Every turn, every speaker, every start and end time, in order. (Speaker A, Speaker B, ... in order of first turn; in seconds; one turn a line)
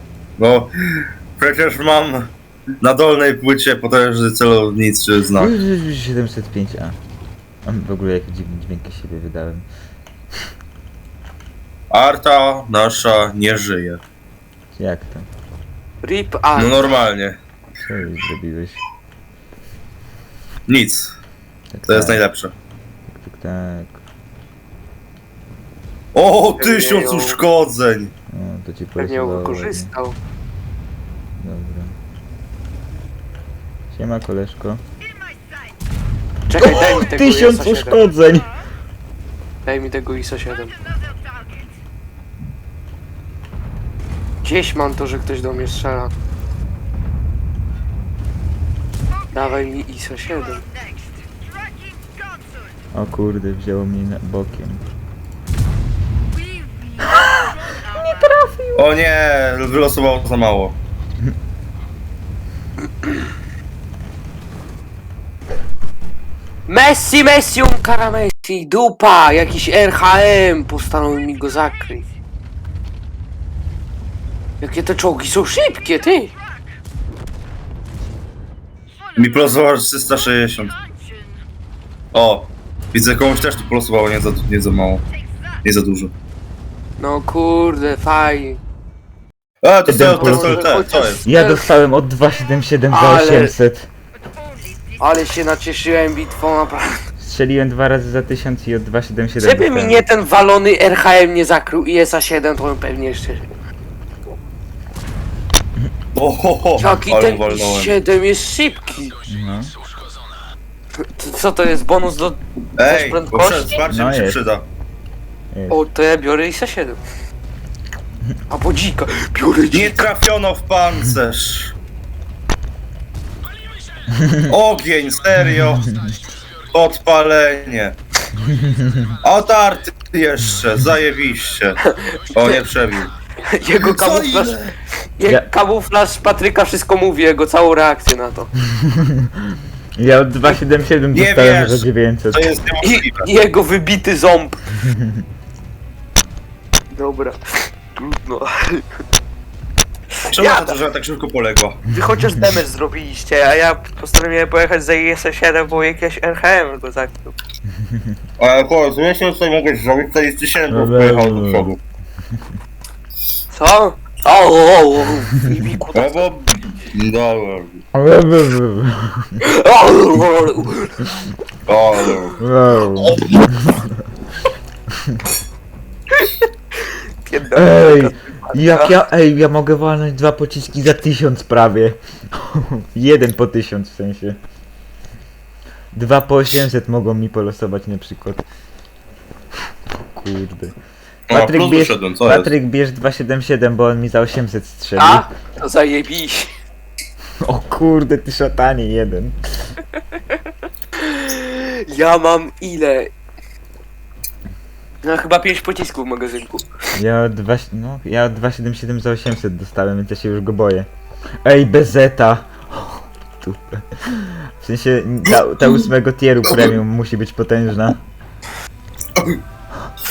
Speaker A: 0.4-0.7
Speaker A: 1.4-2.3
Speaker A: 2.8-5.6
Speaker B: 5.4-7.0
Speaker B: 7.7-9.7
Speaker A: 11.9-14.0
Speaker B: 14.8-15.3
Speaker C: 16.0-17.0
Speaker A: 16.6-17.4
Speaker B: 17.9-18.8
Speaker A: 20.7-21.1
Speaker B: 21.7-22.2
Speaker A: 21.9-22.5
Speaker B: 23.1-24.0
Speaker A: 26.1-28.1
Speaker C: 26.6-27.4
Speaker B: 28.3-29.9
Speaker C: 29.0-30.1
Speaker B: 31.4-32.0
Speaker B: 33.9-34.8
Speaker C: 36.5-38.0
Speaker B: 36.6-38.5
Speaker C: 39.6-40.8
Speaker C: 44.4-46.1
Speaker C: 49.3-50.7
Speaker B: 52.9-54.8
Speaker B: 57.2-58.8
Speaker A: 58.8-60.8
Speaker C: 66.7-72.1
Speaker C: 74.6-76.3
Speaker A: 79.2-80.8
Speaker A: 82.1-85.0
Speaker A: 85.6-86.1
Speaker C: 87.0-88.6
Speaker A: 89.6-91.2
Speaker B: 89.9-90.6
Speaker C: 90.0-91.6
Speaker B: 91.2-93.9
Speaker C: 92.9-93.5
Speaker C: 95.0-97.0
Speaker B: 97.2-100.1
Speaker C: 99.4-103.5
Speaker A: 106.2-108.0
Speaker C: 106.8-109.2
Speaker B: 109.3-109.7
Speaker C: 111.2-113.8
Speaker A: 112.8-114.7
Speaker B: 113.8-114.4
Speaker B: 115.5-115.8
Speaker C: 115.7-117.0
Speaker C: 118.5-120.1
Speaker A: 119.7-121.7
Speaker B: 124.1-124.5
Speaker A: 124.5-125.9
Speaker B: 125.8-126.2
Speaker A: 126.7-128.0
Speaker B: 128.4-129.2
Speaker A: 129.2-131.8
Speaker C: 131.8-132.7
Speaker A: 132.3-133.1
Speaker C: 133.5-134.6
Speaker A: 133.8-134.8
Speaker C: 135.2-138.5
Speaker B: 138.8-142.5
Speaker A: 141.1-143.3
Speaker C: 142.8-144.7
Speaker B: 144.8-145.1
Speaker C: 146.9-147.4
Speaker C: 147.9-148.9
Speaker C: 150.2-150.7
Speaker A: 150.3-151.8
Speaker C: 151.9-157.4
Speaker B: 152.3-152.6
Speaker B: 157.7-158.1
Speaker A: 158.4-161.8
Speaker B: 160.7-161.7
Speaker C: 163.5-166.3
Speaker A: 165.9-167.8
Speaker B: 167.9-169.4
Speaker C: 169.4-171.0
Speaker A: 171.7-172.4
Speaker B: 172.4-174.1
Speaker A: 172.9-173.4
Speaker C: 176.1-179.0
Speaker B: 177.6-184.4
Speaker B: 185.9-188.4
Speaker B: 190.1-190.8
Speaker A: 191.3-192.5
Speaker B: 191.3-195.3
Speaker C: 195.0-196.5
Speaker B: 197.5-199.4
Speaker C: 199.9-200.4
Speaker C: 201.0-203.1
Speaker C: 205.0-206.7
Speaker B: 206.9-210.9
Speaker B: 211.4-218.0
Speaker A: 215.3-215.9
Speaker A: 216.5-216.8